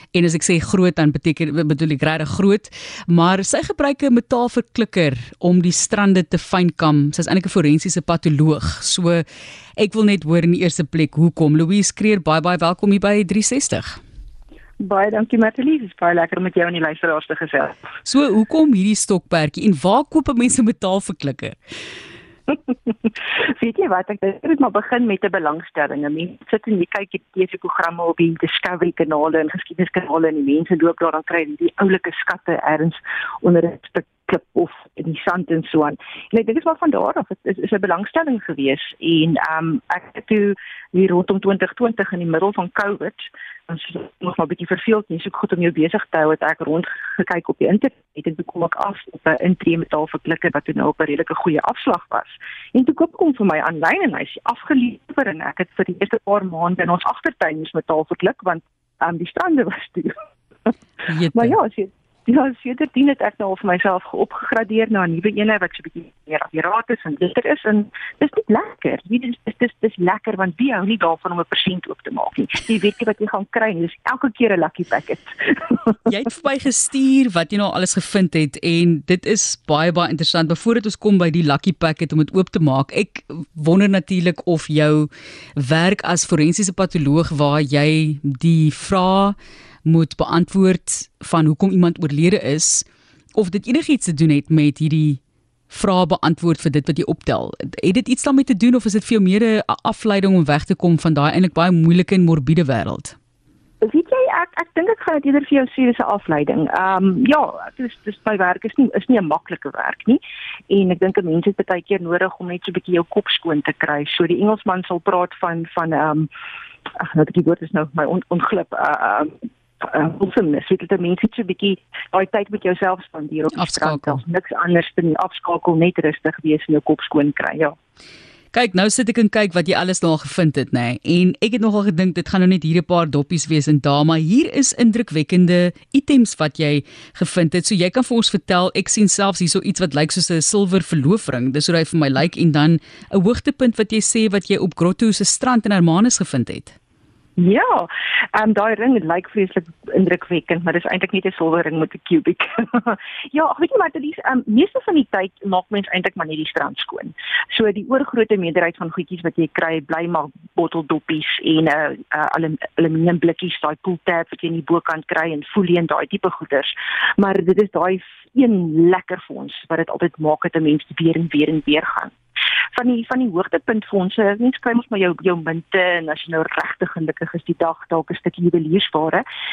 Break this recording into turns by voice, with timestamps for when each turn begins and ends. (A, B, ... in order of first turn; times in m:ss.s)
0:00.1-0:09.2 A
0:09.8-0:14.0 A
0:14.8-0:17.9 B
0:18.0-0:21.6 A
0:22.5-1:00.7 B
1:01.1-1:01.6 A
1:01.3-1:16.0 B
1:16.1-1:43.2 A
1:43.8-1:56.3 B
1:56.9-2:07.8 B
2:03.5-2:04.2 A
2:08.5-2:26.8 A
2:27.4-2:52.1 B
2:52.7-2:59.2 B